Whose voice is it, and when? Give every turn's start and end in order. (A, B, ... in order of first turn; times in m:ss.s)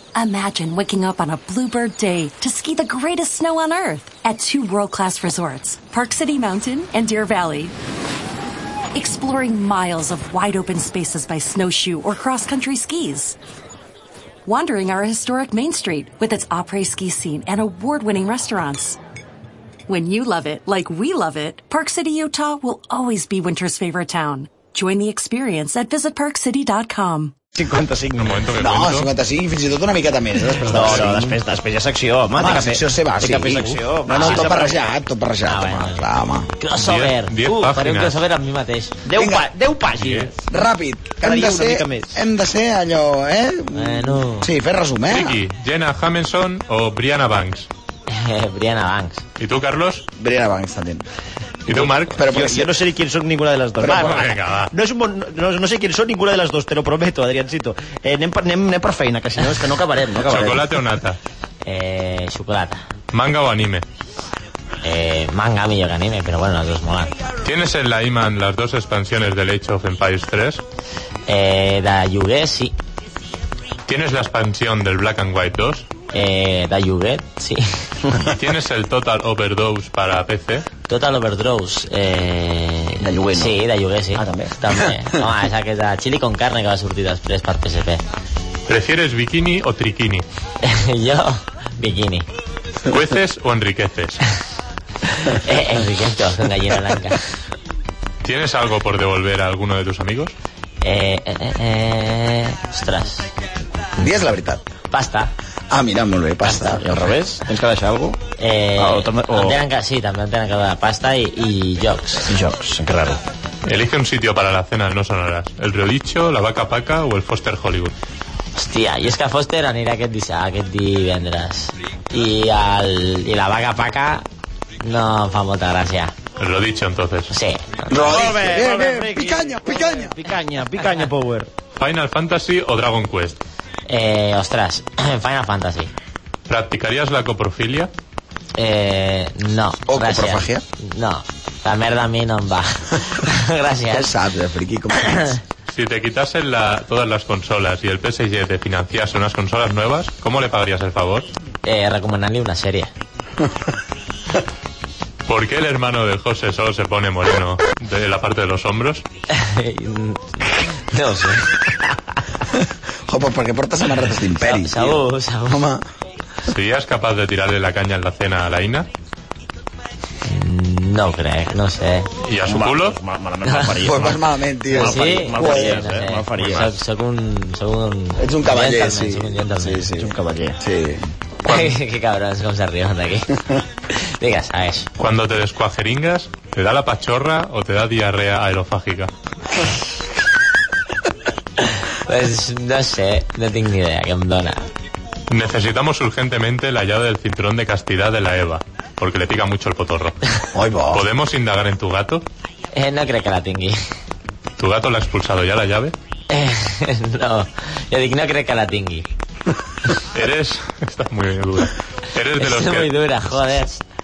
0:00.2-0:07.8 A
0:08.9-0:13.4 A
0:14.5-0:19.0 A
0:19.9-0:27.4 A
0:27.5-0:28.4 B
0:28.2-0:29.1 C
0:28.5-0:31.4 D
0:30.7-0:34.8 B
0:32.4-0:36.5 D
0:34.1-0:34.8 E
0:35.5-0:36.1 E
0:36.6-0:39.0 E
0:36.7-0:38.2 C
0:39.0-0:40.3 B
0:39.2-0:39.5 D
0:40.0-0:40.3 C
0:40.5-0:45.4 D
0:41.2-0:42.2 B
0:43.8-0:44.5 E
0:45.1-0:47.7 C
0:48.1-0:49.2 E
0:49.4-0:50.0 C
0:50.2-0:51.0 D
0:51.7-0:52.2 C
0:51.7-1:00.6 B
0:52.2-0:52.8 D
0:53.8-0:54.3 D
0:53.9-0:54.7 C
1:00.2-1:01.2 C
1:01.6-1:02.8 E
1:03.1-1:03.8 C
1:04.8-1:07.1 E
1:07.4-1:10.6 C
1:11.3-1:12.8 E
1:13.9-1:15.9 C
1:16.1-1:17.9 E
1:18.3-1:20.7 C
1:20.9-1:28.0 E
1:23.0-1:23.6 B
1:24.2-1:24.6 B
1:28.7-1:30.2 C
1:30.6-1:32.3 E
1:32.9-1:34.2 C
1:35.2-1:37.2 E
1:38.2-1:40.3 C
1:40.8-1:43.3 E
1:44.0-1:44.6 D
1:44.9-1:45.3 E
1:45.7-1:47.0 D
1:46.4-1:46.8 E
1:46.8-1:48.2 B
1:48.4-1:52.3 E
1:48.8-1:49.6 B
1:52.3-1:53.2 B
1:53.7-1:57.9 C
1:58.6-2:04.3 E
2:04.8-2:06.1 E
2:06.4-2:07.3 C
2:07.3-2:08.2 E
2:07.9-2:10.2 D
2:08.0-2:11.5 B
2:11.8-2:13.4 C
2:13.9-2:15.9 E
2:16.5-2:17.9 C
2:18.6-2:24.2 E
2:19.9-2:20.6 D
2:23.9-2:25.3 D
2:25.0-2:25.4 E
2:25.7-2:31.3 C
2:31.6-2:32.9 E
2:35.3-2:39.0 C
2:39.3-2:41.7 E
2:42.5-2:45.8 D
2:44.4-2:45.7 E
2:46.5-2:48.9 C
2:50.3-2:52.1 E
2:52.2-2:53.0 C
2:52.5-2:54.2 B
2:53.8-2:55.8 D
2:54.7-2:59.9 E
2:54.8-2:56.7 B
2:58.2-3:01.0 D
3:00.0-3:00.6 B
3:01.4-3:04.9 E
3:01.5-3:01.8 C
3:05.0-3:09.1 C
3:11.6-3:14.6 E
3:15.3-3:20.2 C
3:20.5-3:21.1 D
3:20.9-3:22.3 C
3:22.7-3:23.8 E
3:24.6-3:25.9 C
3:26.3-3:29.1 E
3:30.1-3:32.9 C
3:32.4-3:33.8 E